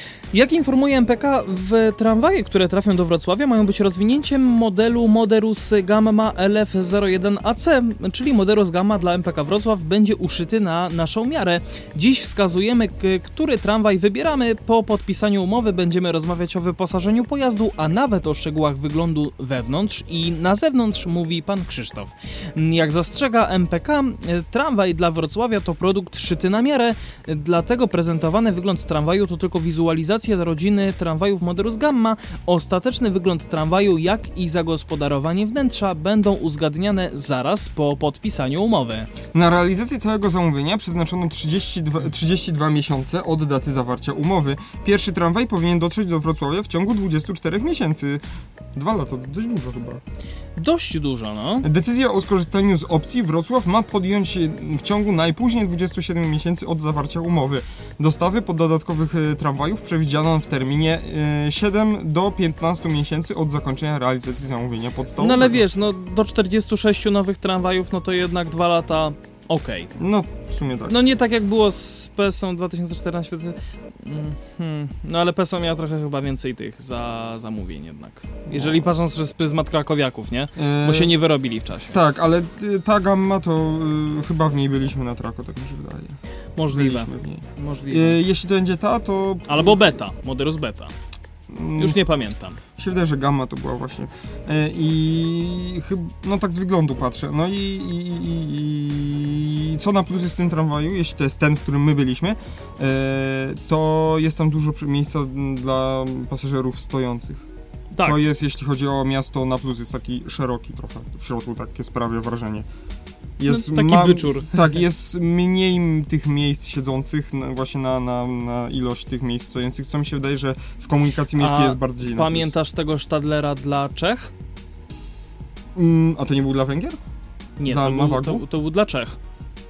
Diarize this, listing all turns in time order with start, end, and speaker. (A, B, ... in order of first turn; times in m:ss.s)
0:00.3-0:39.1 A
0:39.3-0:48.2 B
0:48.7-0:50.0 B
0:50.6-0:51.6 A
0:51.6-1:05.6 B
1:05.2-1:09.9 A
1:10.0-1:11.0 B
1:10.9-1:21.9 A
1:18.5-1:18.8 B
1:20.6-1:21.1 B
1:21.9-1:26.2 B
1:26.6-1:28.2 A
1:26.7-1:30.0 B
1:29.5-1:30.9 A
1:31.5-1:32.0 B
1:31.8-1:32.6 A
1:32.8-1:47.4 B
1:47.9-1:48.2 A
1:48.0-1:52.6 B
1:53.4-2:02.5 B
1:53.4-1:54.7 A
2:01.4-2:04.3 A
2:05.7-2:07.0 B
2:07.6-2:09.2 A
2:07.6-2:08.4 B